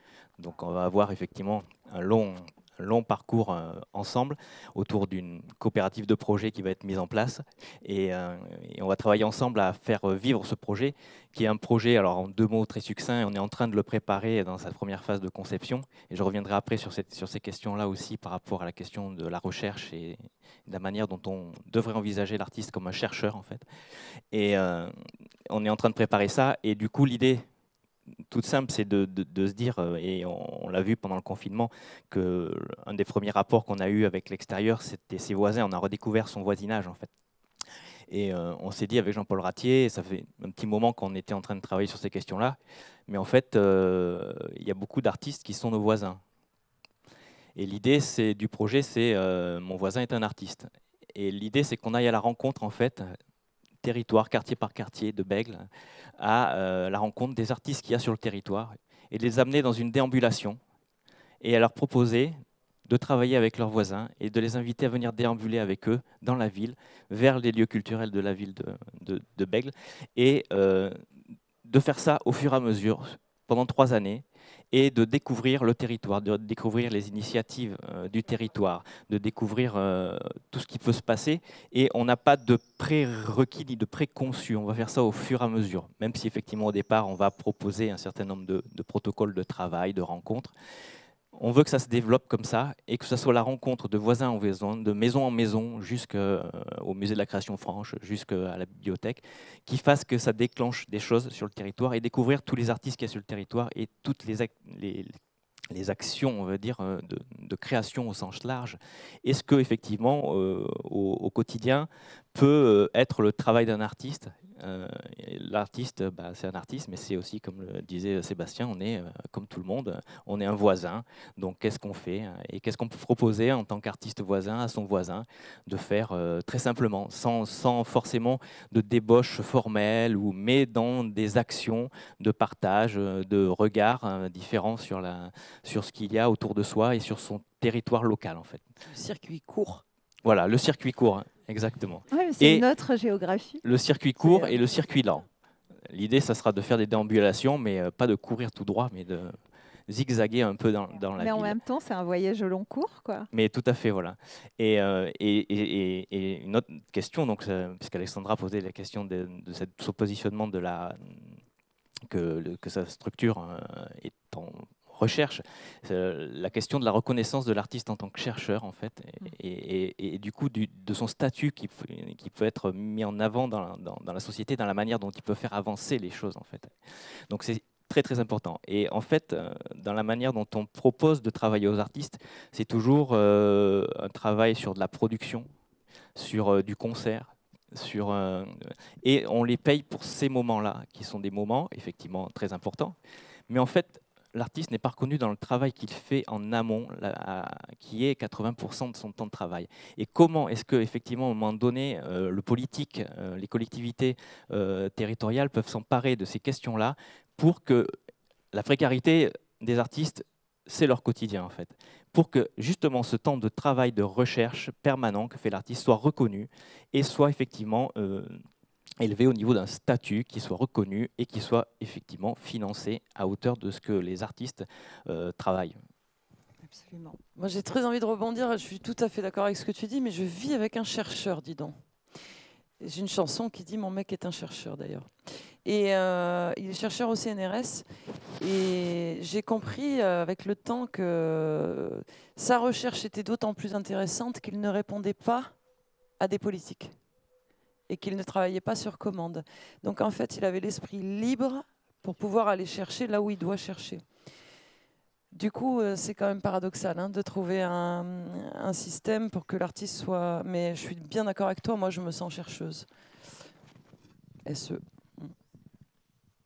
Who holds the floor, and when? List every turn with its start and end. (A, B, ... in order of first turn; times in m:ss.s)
0:00.4-0:23.6 A
0:24.3-0:24.9 A
0:25.5-0:27.4 A
0:28.3-0:37.1 A
0:38.1-0:42.6 A
0:43.1-0:46.2 A
0:47.6-0:53.2 A
0:53.8-1:00.6 A
1:01.4-1:11.0 A
1:11.6-1:30.5 A
1:31.3-1:45.2 A
1:45.7-2:18.7 A
2:18.8-2:19.8 B
2:20.2-2:22.6 A
2:22.1-2:23.6 C
2:23.6-2:25.2 A
2:24.2-2:24.5 C
2:25.9-2:29.4 A
2:29.9-2:31.6 A
2:31.2-2:33.3 C
2:33.3-2:41.4 A
2:42.1-2:56.8 A
2:57.3-3:05.5 A
3:06.2-3:13.0 A
3:13.5-3:27.9 A
3:28.5-3:38.4 A
3:39.0-3:45.8 A
3:46.6-3:47.2 C
3:47.4-3:52.2 B
3:52.8-3:57.8 B
3:58.4-4:05.6 B
4:06.2-4:06.9 B
4:07.9-4:14.0 B
4:15.3-4:22.9 B
4:24.4-4:25.3 B